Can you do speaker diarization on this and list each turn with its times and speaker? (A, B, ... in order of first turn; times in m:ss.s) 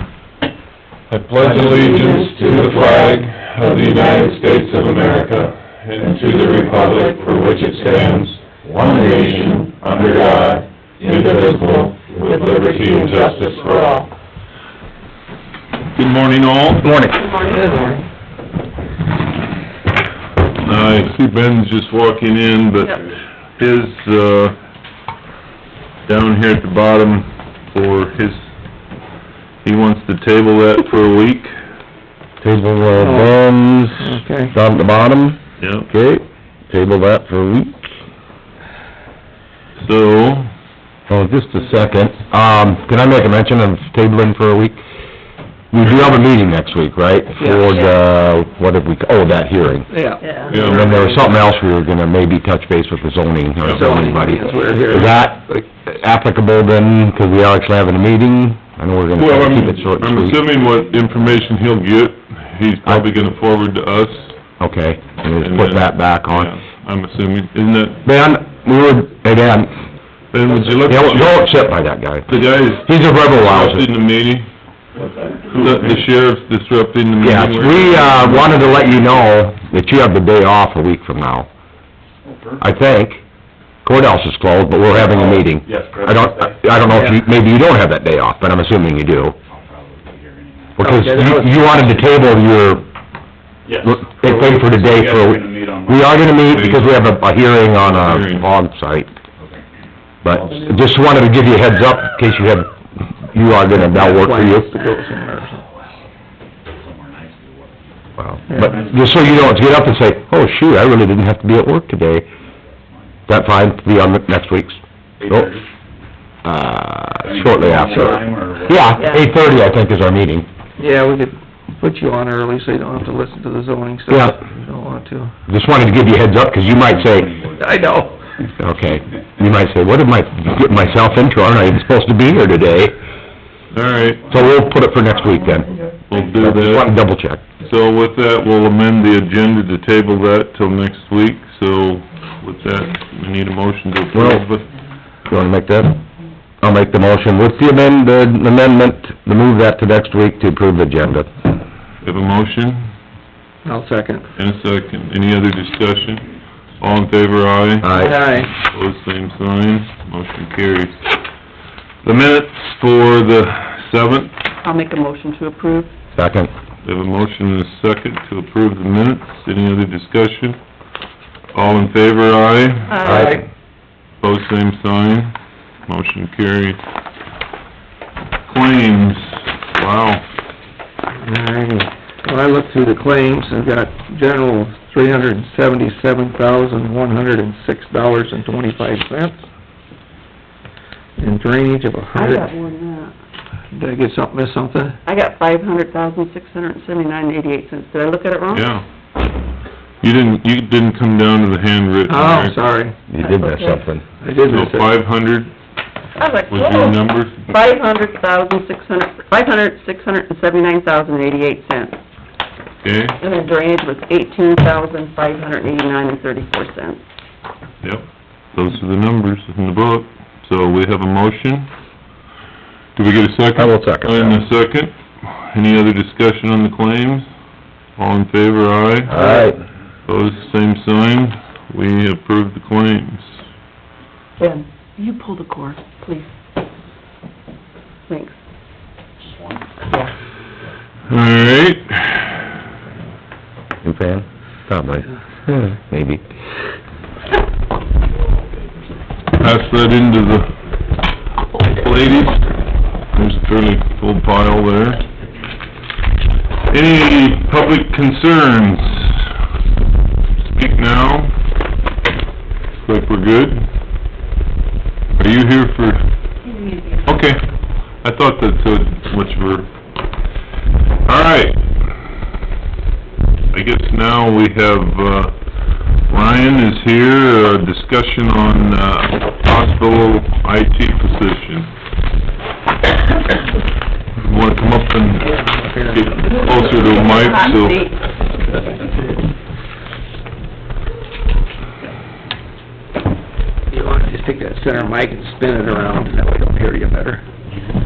0:01.1-0:08.4 A
0:01.4-0:03.2 B
0:03.8-0:04.2 B
0:06.2-0:07.4 B
0:08.6-0:08.9 C
0:08.8-0:10.5 B
0:09.0-0:13.9 A
0:11.0-0:14.1 B
0:15.9-0:16.9 A
0:16.8-0:17.2 C
0:17.1-0:18.0 B
0:17.4-0:18.0 D
0:20.6-0:24.6 A
0:26.0-0:28.5 A
0:29.6-0:31.5 A
0:32.4-0:37.8 C
0:32.9-0:33.4 D
0:34.0-0:34.5 D
0:35.6-0:35.9 A
0:39.8-0:40.5 A
0:41.1-0:44.8 C
0:45.7-0:49.9 C
0:45.8-0:46.1 A
0:47.4-0:47.7 D
0:49.9-0:51.4 D
0:50.2-0:50.6 B
0:50.4-0:51.1 A
0:50.5-1:00.4 C
0:53.6-0:54.0 A
0:53.6-0:55.2 D
0:59.1-1:04.4 A
1:00.7-1:01.7 E
1:03.1-1:05.1 E
1:04.6-1:06.5 C
1:05.4-1:08.0 A
1:07.7-1:08.4 E
1:08.0-1:09.8 C
1:10.3-1:11.4 A
1:10.8-1:13.9 C
1:12.3-1:14.5 A
1:14.9-1:16.0 E
1:15.5-1:19.0 A
1:17.2-1:21.5 C
1:22.2-1:22.7 E
1:22.6-1:23.2 C
1:23.8-1:29.4 C
1:24.9-1:26.8 E
1:26.9-1:27.3 D
1:29.4-1:30.9 E
1:30.8-1:32.0 D
1:30.8-1:32.8 C
1:33.6-1:36.4 E
1:33.8-1:39.1 C
1:36.5-1:37.0 A
1:37.7-1:38.5 A
1:39.4-1:39.8 E
1:40.2-1:42.7 C
1:43.2-1:44.7 C
1:43.7-1:45.6 D
1:45.0-1:49.8 E
1:48.2-1:52.3 C
1:48.5-1:48.9 D
1:52.9-1:53.2 E
1:53.3-1:55.5 C
1:55.2-1:55.7 E
1:56.4-2:00.5 C
1:57.2-1:59.2 E
1:59.0-1:59.3 B
2:00.8-2:05.3 D
2:04.1-2:04.4 C
2:05.5-2:07.4 C
2:06.6-2:09.1 E
2:07.6-2:08.1 D
2:08.6-2:13.0 C
2:10.8-2:11.2 E
2:13.7-2:14.2 A
2:13.8-2:14.6 E
2:14.3-2:17.4 C
2:15.6-2:16.4 E
2:16.1-2:16.9 A
2:17.6-2:24.7 A
2:24.1-2:24.4 C
2:25.3-2:26.0 C
2:26.6-2:31.3 C
2:32.0-2:32.8 A
2:33.6-2:34.2 D
2:34.3-2:36.3 A
2:36.8-2:37.9 A
2:37.8-2:38.2 C
2:37.9-2:38.5 D
2:38.5-2:41.0 A
2:42.0-2:44.3 A
2:44.6-2:45.9 B
2:46.1-2:46.5 C
2:46.8-2:50.6 A
2:51.5-2:53.4 A
2:52.9-2:53.4 B
2:54.2-2:55.3 A
2:55.9-2:56.8 A
2:58.4-3:00.2 A
3:01.1-3:09.4 D
3:11.2-3:12.5 D
3:12.1-3:13.1 B
3:13.7-3:15.0 D
3:15.0-3:18.7 B
3:18.5-3:18.8 A
3:20.0-3:22.6 A
3:22.1-3:23.0 D
3:23.1-3:24.0 C
3:23.2-3:23.8 B
3:24.2-3:24.9 D
3:24.5-3:25.5 A
3:26.2-3:32.0 B
3:26.5-3:27.5 A
3:32.8-3:33.2 A
3:33.2-3:37.0 B
3:37.8-3:41.7 A
3:43.0-3:47.3 A
3:43.5-3:44.4 C
3:48.0-3:49.2 A
3:49.1-3:49.6 C
3:49.1-3:49.5 B
3:50.0-3:53.4 A
3:54.4-3:56.3 B
3:58.1-3:58.4 B
3:59.3-3:59.6 E
4:01.1-4:02.3 A
4:03.8-4:06.2 C
4:09.3-4:10.5 A
4:11.5-4:12.4 A
4:13.1-4:15.0 A
4:16.7-4:19.3 A
4:20.4-4:21.3 A
4:22.8-4:23.6 A
4:25.2-4:26.0 A
4:26.4-4:27.0 B
4:27.0-4:27.4 A
4:28.0-4:29.7 A
4:31.0-4:31.7 A
4:33.5-4:35.4 A
4:36.1-4:41.7 A
4:44.2-4:47.9 A
4:45.3-4:46.3 D
4:46.6-4:48.0 B
4:53.7-4:57.2 D